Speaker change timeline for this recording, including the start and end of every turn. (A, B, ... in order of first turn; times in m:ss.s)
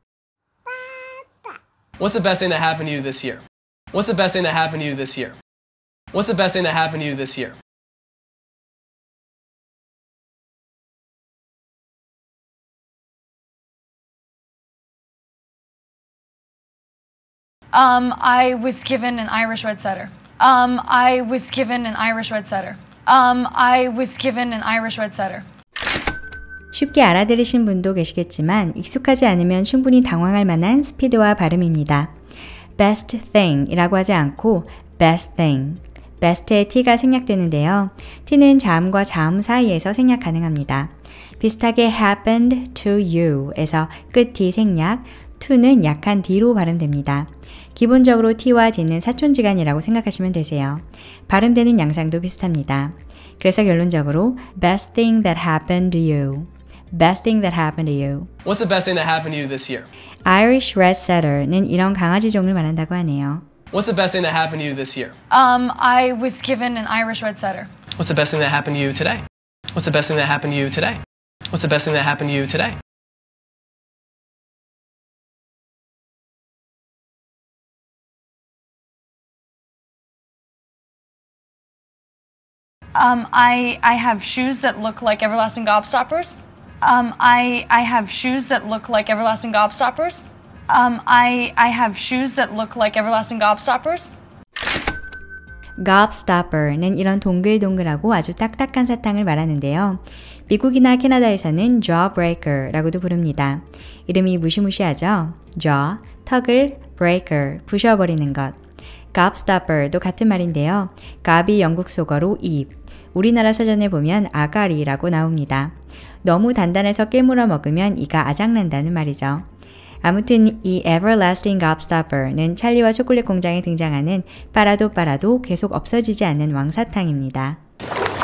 0:02.0-0:03.4 A
0:03.9-0:05.4 A
0:06.1-0:07.6 A
0:17.7-0:25.5 B
0:26.7-0:32.1 C
0:32.8-0:58.3 C
0:58.4-0:59.9 A
1:00.3-1:03.4 C
1:03.7-1:05.2 A
1:05.3-1:07.7 B
1:08.0-1:09.2 A
1:09.7-1:11.0 A
1:11.5-1:12.8 A
1:23.0-1:34.1 B
1:35.8-1:48.6 C
1:49.1-1:59.4 C
2:00.0-2:07.6 C